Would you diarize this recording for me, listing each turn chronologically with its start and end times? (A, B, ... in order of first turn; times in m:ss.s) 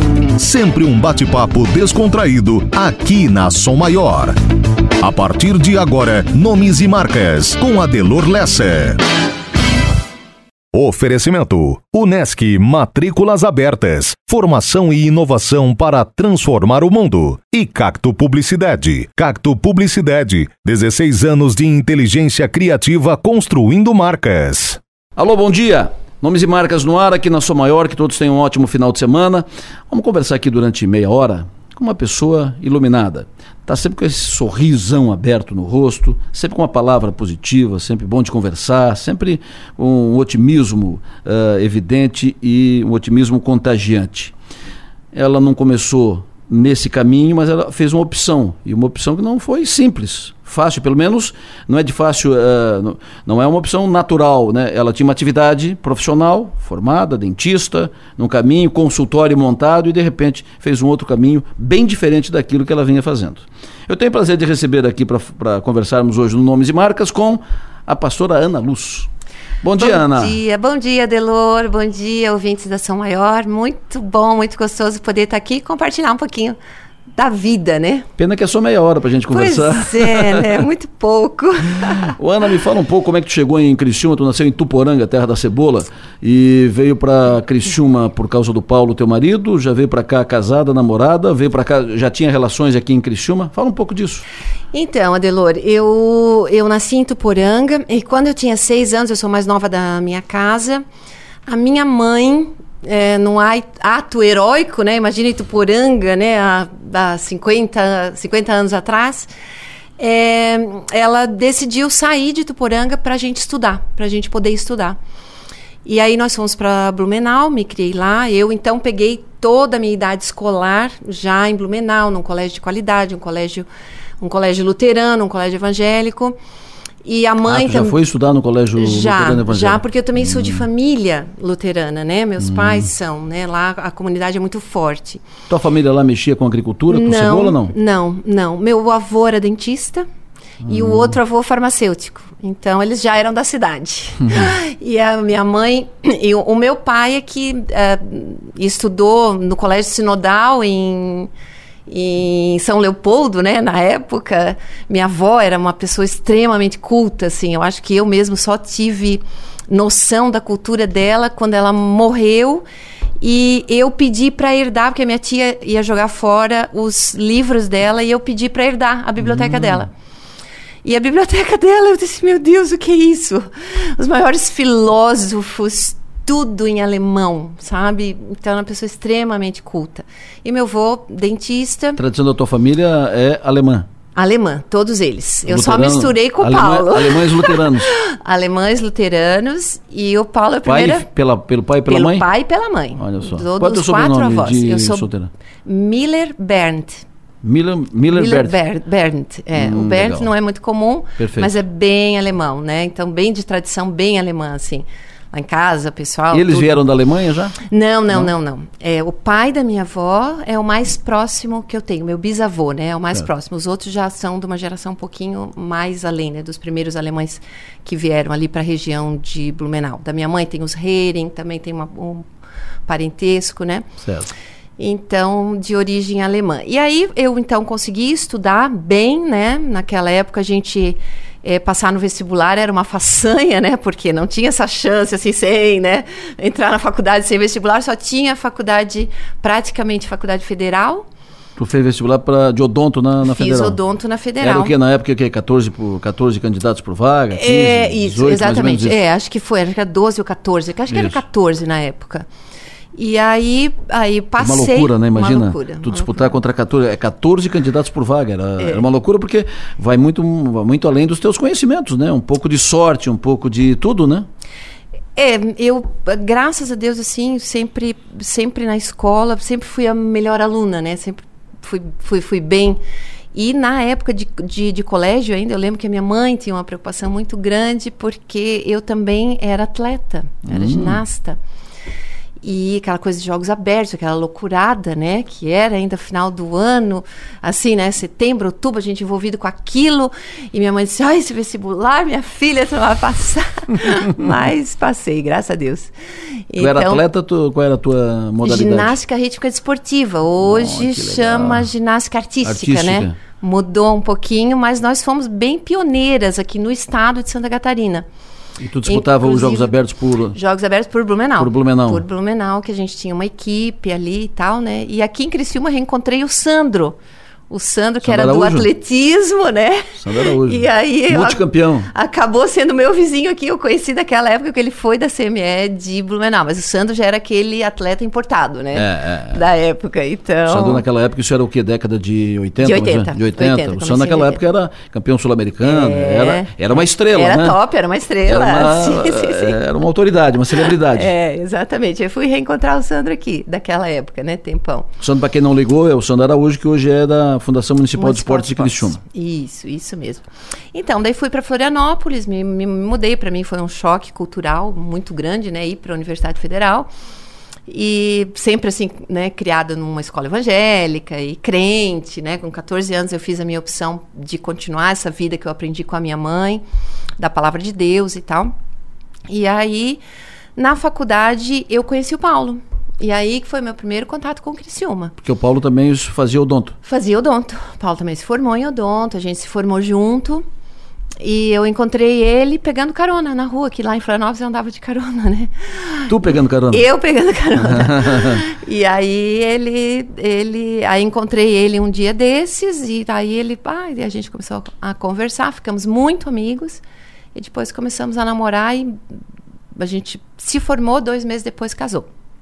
0:00.4-0:04.4 A
0:05.0-0:09.0 A
0:10.7-0:24.8 A
0:25.2-0:44.3 B
0:45.1-1:09.1 B
1:09.6-1:10.4 B
1:09.8-1:16.6 C
1:17.2-1:18.1 C
1:18.2-1:20.6 B
1:19.3-1:22.1 C
1:21.9-1:34.2 B
1:34.7-1:40.8 C
1:41.5-1:49.3 C
1:50.0-1:55.0 C
1:55.8-2:03.6 C
2:04.2-2:06.4 C
2:07.0-2:08.0 C
2:07.5-2:10.6 B
2:08.8-2:15.2 C
2:12.4-2:12.8 B
2:15.5-2:17.7 B
2:16.9-2:20.1 C
2:20.6-2:21.2 B
2:20.7-2:31.3 C
2:31.9-2:42.6 C
2:43.2-2:49.9 C
2:49.2-2:49.8 B
2:50.8-3:02.0 C
3:02.0-3:03.9 B
3:04.2-3:11.1 C
3:05.5-3:07.9 B
3:10.6-3:12.2 B
3:11.9-3:15.1 C
3:13.0-3:15.3 B
3:15.6-3:17.0 C
3:17.4-3:18.5 B
3:18.1-3:26.8 C
3:19.6-3:20.3 B
3:21.2-3:21.5 B
3:26.3-3:27.6 B
3:27.6-3:42.3 C
3:42.9-3:43.9 C
3:44.0-3:44.3 B
3:44.8-4:01.1 C
4:01.6-4:03.8 B
4:03.3-4:04.7 C
4:04.4-4:09.0 B
4:07.3-4:12.3 C
4:10.9-4:11.2 B
4:12.9-4:16.4 C
4:14.4-4:24.3 B
4:18.6-4:18.8 C
4:25.2-4:32.8 C
4:33.3-4:41.4 C
4:40.5-4:41.0 B
4:42.4-4:55.9 C
4:56.5-4:57.0 C
4:56.6-4:59.0 B
4:58.4-5:08.1 C
5:00.4-5:01.7 B
5:02.4-5:03.1 B
5:08.6-5:10.4 B
5:08.9-5:09.7 C
5:10.3-5:17.0 C
5:11.4-5:12.0 B
5:17.5-5:30.8 C
5:18.0-5:18.7 B
5:20.0-5:21.9 B
5:28.8-5:29.4 B
5:30.5-5:37.6 B
5:32.6-5:34.4 C
5:35.6-5:39.6 C
5:38.3-5:41.1 B
5:40.6-5:44.9 C
5:45.0-5:49.0 B
5:48.0-5:56.9 C
5:57.7-6:06.6 C
6:07.2-6:08.5 C
6:09.3-6:10.0 C
6:10.6-6:15.1 C
6:15.2-6:16.8 B
6:16.8-6:20.4 C
6:21.2-6:36.8 C
6:26.1-6:26.8 B
6:27.6-6:28.4 B
6:37.4-6:39.0 C
6:39.8-6:42.1 C